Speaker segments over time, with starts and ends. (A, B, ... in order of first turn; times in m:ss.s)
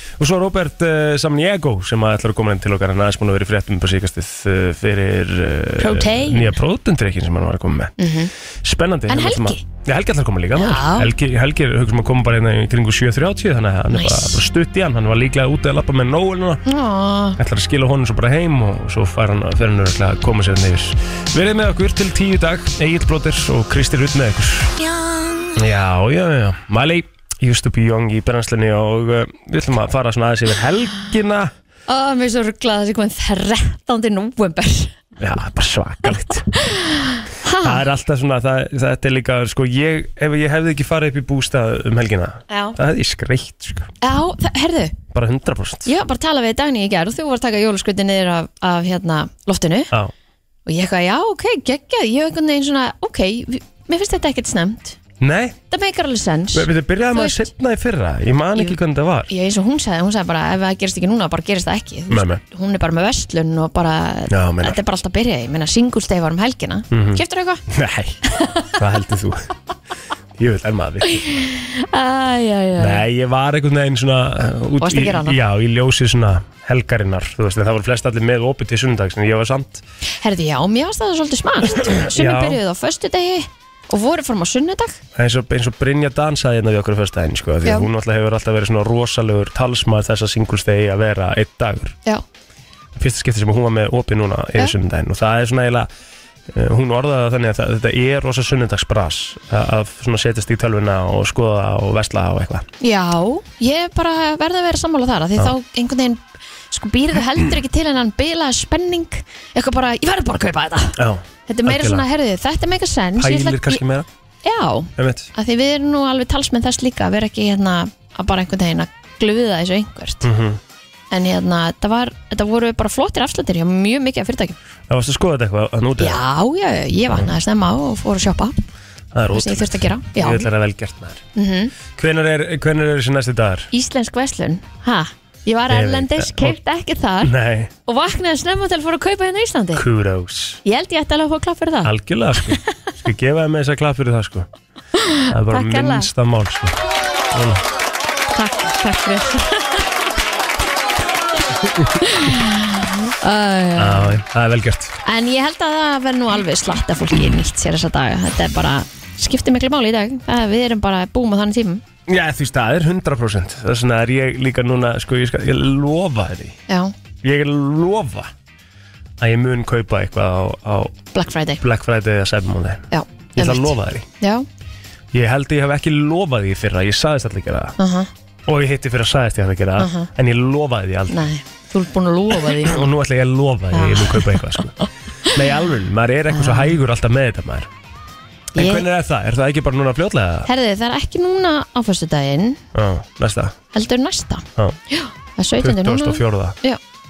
0:00.2-0:08.0 A
0:05.8-0:06.5 B
0:08.0-0:08.3 B
0:08.6-0:16.6 A
0:09.1-0:09.6 B
0:10.6-0:11.1 B
0:13.9-0:14.4 B
0:16.6-0:17.4 B
0:17.4-0:24.7 A
0:24.8-0:25.6 B
0:25.6-0:31.5 A
0:31.9-0:34.9 B
0:35.2-0:36.5 A
0:36.5-0:37.8 B
0:37.6-0:43.9 A
0:42.5-0:42.8 B
0:44.0-0:44.9 B
0:45.1-0:45.9 A
0:45.8-0:49.9 B
0:50.6-0:55.0 B
0:55.2-0:55.6 A
0:55.7-0:57.4 B
0:56.5-0:59.3 A
0:59.3-1:07.6 B
1:02.1-1:02.4 A
1:04.3-1:04.8 A
1:06.9-1:09.5 A
1:08.3-1:08.7 B
1:10.4-1:11.2 A
1:11.1-1:13.0 B
1:12.8-1:19.8 A
1:14.8-1:15.4 B
1:20.2-1:25.0 B
1:21.6-1:22.6 A
1:25.1-1:32.0 A
1:27.6-1:27.9 B
1:32.9-1:35.9 A
1:36.5-1:42.6 A
1:42.8-1:53.8 B
1:51.0-1:52.1 A
1:53.2-1:54.1 A
1:54.4-2:00.3 B
1:55.0-1:55.3 A
2:00.2-2:00.6 A
2:01.1-2:04.6 B
2:04.9-2:06.2 A
2:06.0-2:08.5 B
2:09.1-2:11.2 A
2:09.3-2:10.5 B
2:11.3-2:11.7 B
2:12.0-2:13.7 A
2:13.7-2:17.3 B
2:15.7-2:16.6 A
2:17.2-2:17.7 A
2:17.8-2:19.8 B
2:19.7-2:20.6 A
2:20.6-2:22.4 B
2:21.8-2:24.5 A
2:25.0-2:26.1 B
2:25.3-2:26.8 A
2:27.3-2:27.6 A
2:28.3-2:29.8 B
2:32.0-2:34.2 B
2:33.8-2:35.0 A
2:35.0-2:41.8 B
2:42.1-2:46.6 A
2:47.2-2:48.3 A
2:49.2-2:51.0 A
2:51.1-2:51.6 B
2:51.6-2:54.1 A
2:52.9-2:54.4 B
2:55.1-2:57.8 A
2:57.8-2:58.1 B
2:58.4-3:01.3 A
2:59.8-3:00.1 B
3:01.1-3:02.9 B
3:02.4-3:07.7 A
3:03.7-3:05.3 B
3:06.3-3:06.7 B
3:08.5-3:08.8 B
3:08.6-3:10.5 A
3:10.4-3:12.6 B
3:12.7-3:13.6 A
3:13.7-3:16.8 B
3:15.6-3:16.6 A